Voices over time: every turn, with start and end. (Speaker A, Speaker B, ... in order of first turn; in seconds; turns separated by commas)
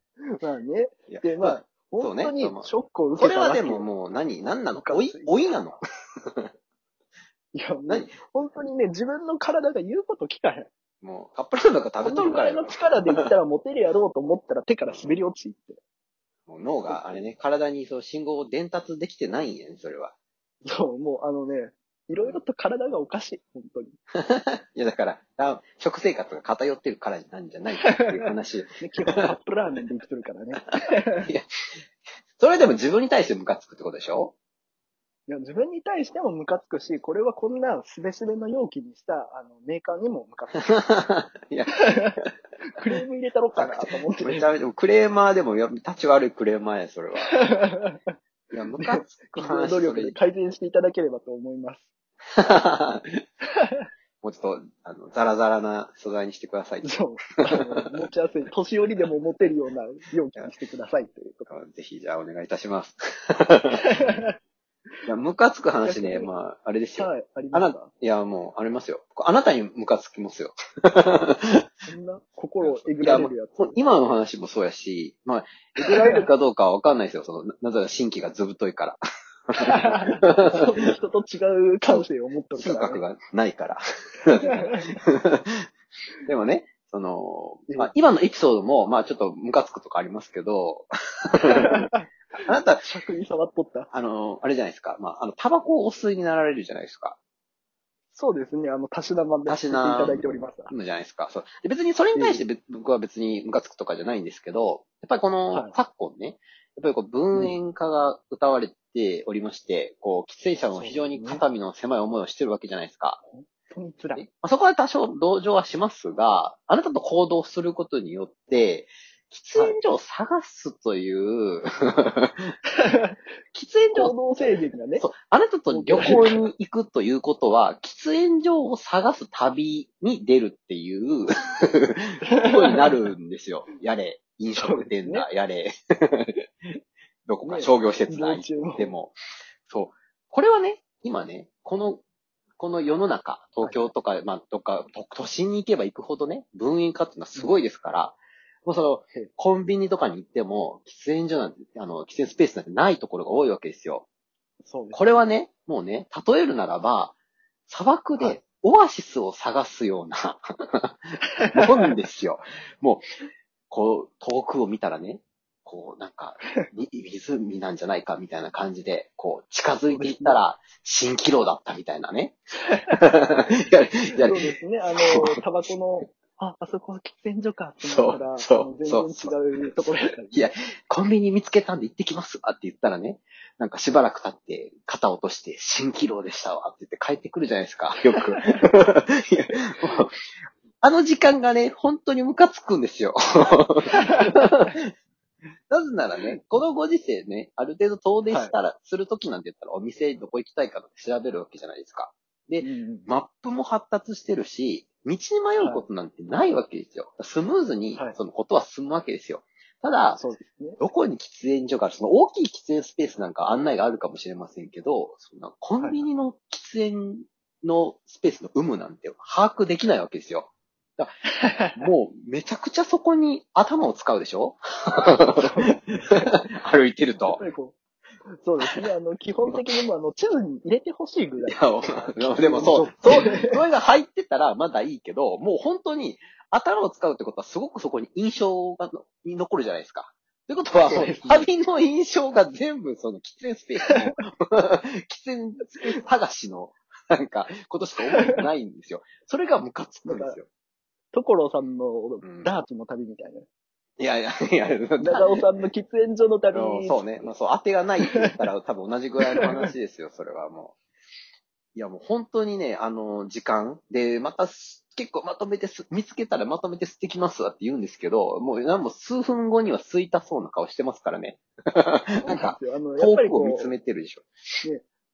Speaker A: 0.4-3.9, Speaker B: 1.1-6.5, Speaker A: 4.8-5.3, Speaker A: 7.5-10.7, Speaker B: 7.9-8.1, Speaker B: 11.0-13.3, Speaker A: 12.0-15.8, Speaker B: 16.5-20.1, Speaker A: 20.6-24.0, Speaker B: 24.2-29.3, Speaker A: 28.8-31.3, Speaker B: 31.2-31.5, Speaker B: 32.4-34.3, Speaker A: 35.3-40.7, Speaker B: 40.7-42.3, Speaker A: 41.9-42.2, Speaker A: 42.7-44.5, Speaker B: 43.5-47.4, Speaker A: 47.3-48.1, Speaker B: 48.5-50.2, Speaker A: 48.8-51.9, Speaker B: 52.4-53.2, Speaker A: 53.6-53.9, Speaker B: 54.2-57.6, Speaker A: 56.8-61.5, Speaker B: 61.5-63.9, Speaker A: 63.8-64.3, Speaker B: 65.1-71.6, Speaker A: 65.8-66.3, Speaker A: 67.0-67.9, Speaker A: 71.9-73.8, Speaker B: 72.6-80.6, Speaker A: 75.8-76.3, Speaker A: 79.6-83.0, Speaker B: 81.9-85.7, Speaker A: 84.3-84.9, Speaker B: 86.2-91.9, Speaker A: 87.7-87.9, Speaker A: 91.4-92.1, Speaker B: 92.5-92.9, Speaker A: 92.8-93.9, Speaker B: 93.9-97.2, Speaker A: 98.1-100.7, Speaker B: 99.5-113.2, Speaker A: 102.2-102.5, Speaker A: 110.7-111.4, Speaker A: 113.3-114.2, Speaker B: 114.2-122.5, Speaker A: 122.8-123.2, Speaker B: 123.5-124.1, Speaker A: 123.9-125.0, Speaker B: 125.0-139.2, Speaker A: 125.7-126.5, Speaker A: 132.3-133.0, Speaker A: 134.5-135.3, Speaker A: 137.4-138.9, Speaker B: 139.7-142.0, Speaker B: 142.6-154.1, Speaker A: 143.6-143.9, Speaker A: 147.3-147.6, Speaker A: 154.7-155.3, Speaker B: 154.9-157.2, Speaker B: 157.7-163.1, Speaker A: 161.4-161.9, Speaker B: 163.7-175.7, Speaker A: 169.9-170.4, Speaker A: 174.2-180.5, Speaker B: 177.8-190.2, Speaker B: 190.8-194.9, Speaker A: 193.9-194.7, Speaker B: 195.7-210.2, Speaker A: 198.3-198.6, Speaker A: 202.6-203.1, Speaker A: 205.6-205.8, Speaker A: 210.2-210.8, Speaker B: 210.8-221.1, Speaker A: 221.4-221.9, Speaker B: 221.8-227.4, Speaker A: 225.3-226.4, Speaker A: 227.2-227.8, Speaker A: 228.3-233.6, Speaker B: 228.6-228.9, Speaker B: 231.4-250.5, Speaker A: 240.8-241.5, Speaker A: 248.2-248.4, Speaker A: 250.1-250.4, Speaker A: 251.1-253.5, Speaker B: 252.2-252.5, Speaker B: 254.0-255.6, Speaker A: 255.0-257.3, Speaker B: 256.5-260.8, Speaker A: 259.4-259.7, Speaker B: 261.8-274.3, Speaker A: 272.2-273.7